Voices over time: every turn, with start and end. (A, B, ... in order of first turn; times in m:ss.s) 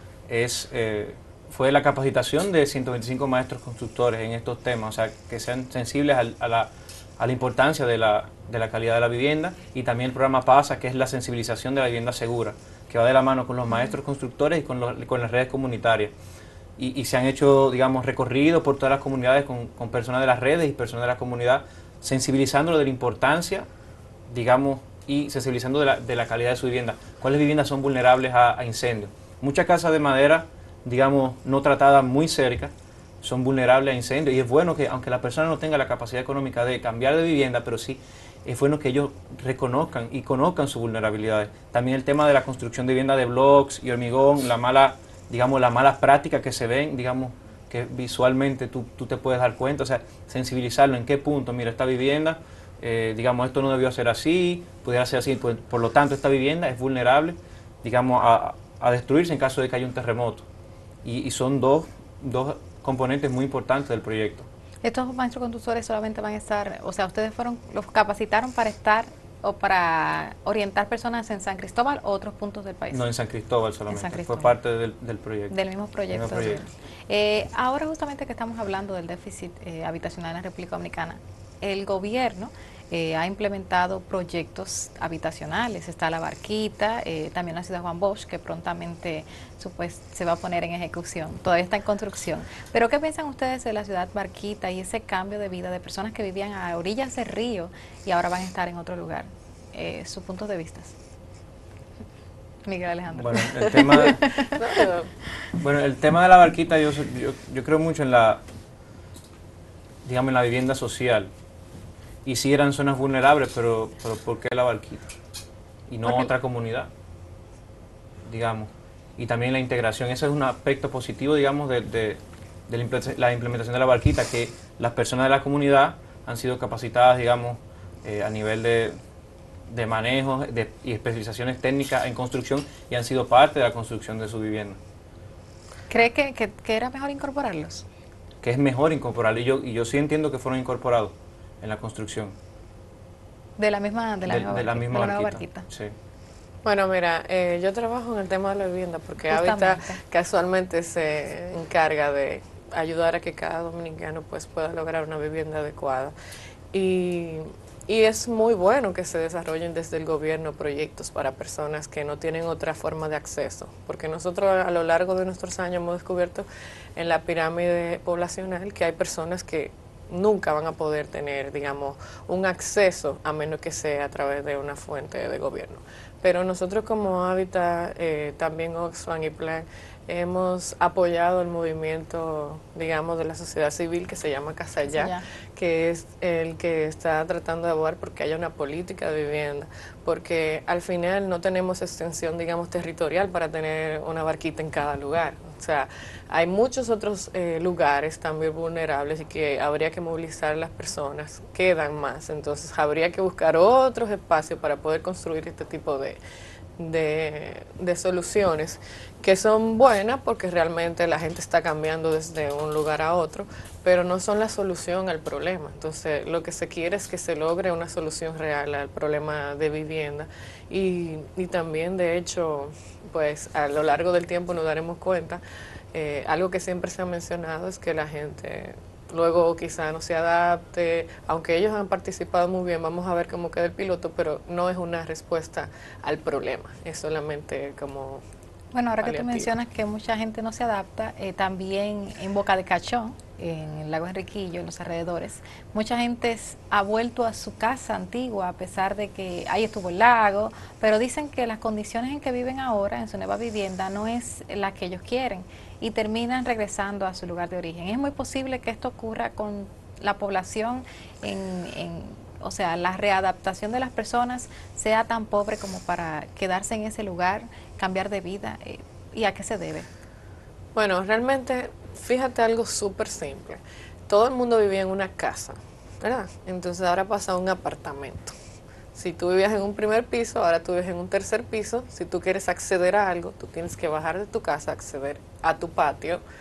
0:00.3-0:16.1 A
0:16.8-0:23.7 A
0:24.3-1:00.5 A
1:01.0-1:04.5 A
1:04.8-1:13.0 B
1:12.9-1:15.6 A
1:13.9-1:14.6 B
1:15.5-1:40.9 B
1:16.1-1:16.6 A
1:42.6-1:44.6 B
1:43.1-1:44.2 A
1:44.5-1:45.1 C
1:45.6-1:48.4 A
1:50.0-1:51.3 A
1:52.2-1:55.0 A
1:55.9-1:56.9 A
1:56.0-1:56.3 B
1:58.3-2:09.0 A
2:09.7-2:14.8 A
2:15.9-2:17.9 B
2:18.4-2:22.4 A
2:23.6-2:25.7 B
2:24.3-2:25.9 A
2:26.6-2:36.1 C
2:29.2-2:30.0 B
2:36.7-3:26.2 C
3:04.9-3:05.3 B
3:26.8-3:45.4 C
3:45.9-3:58.2 C
3:58.7-4:29.9 B
3:59.0-3:59.5 C
4:30.8-4:38.3 C
4:38.9-4:46.2 C